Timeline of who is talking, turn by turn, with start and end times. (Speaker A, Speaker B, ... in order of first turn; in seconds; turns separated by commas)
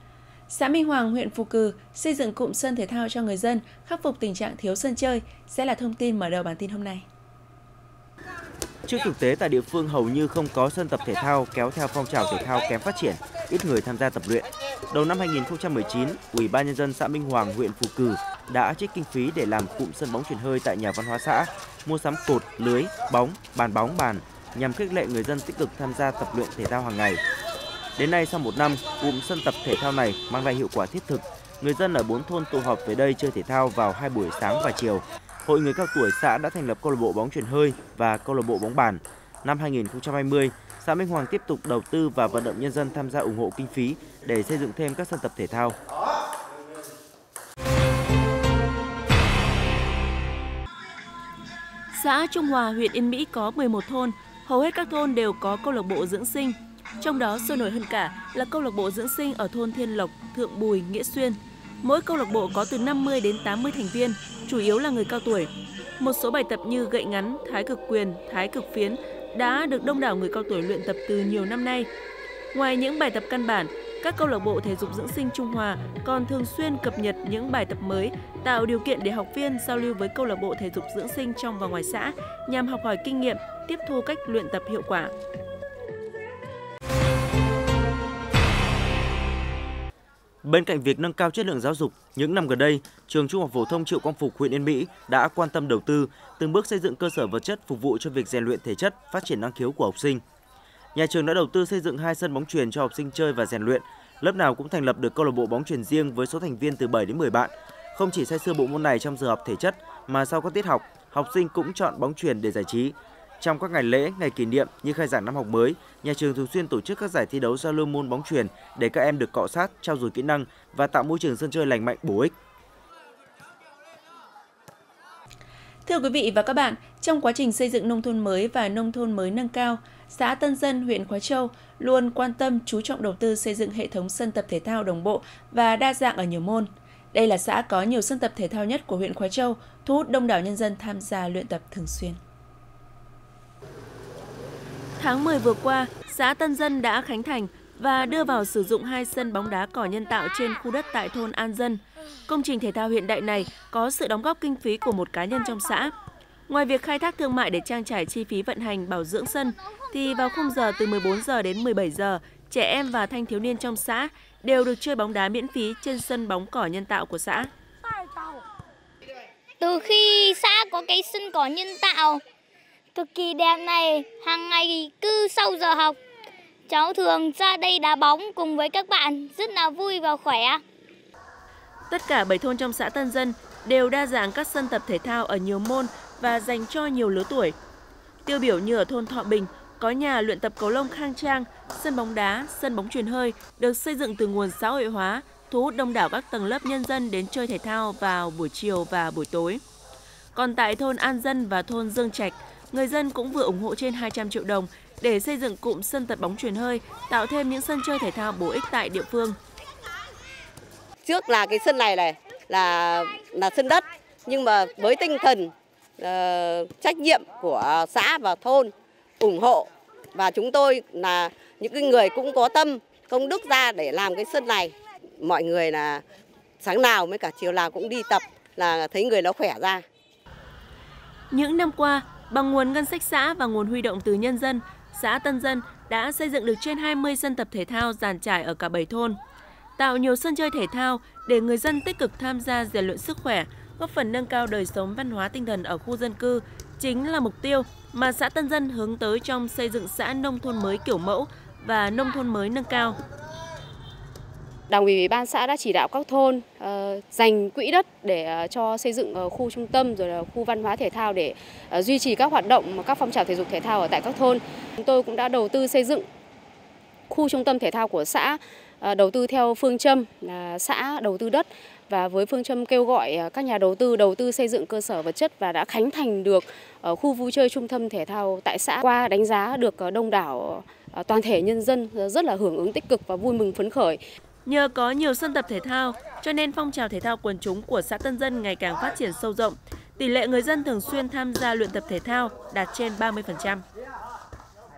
Speaker A: 0.5-7.0, Speaker B: 8.8-27.2, Speaker B: 28.0-45.8, Speaker C: 51.9-71.9, Speaker C: 72.5-85.1, Speaker B: 90.4-100.2, Speaker B: 100.9-122.3, Speaker A: 125.8-142.2, Speaker C: 145.0-155.9, Speaker C: 156.5-167.5, Speaker D: 169.6-172.2, Speaker D: 172.9-176.0, Speaker D: 176.7-180.6, Speaker C: 181.9-187.6, Speaker C: 188.2-199.6, Speaker C: 200.3-209.4, Speaker E: 211.0-226.0, Speaker E: 226.6-229.8, Speaker C: 231.3-239.2, Speaker C: 239.8-253.0, Speaker F: 254.7-266.0, Speaker F: 267.1-284.0, Speaker C: 284.4-293.6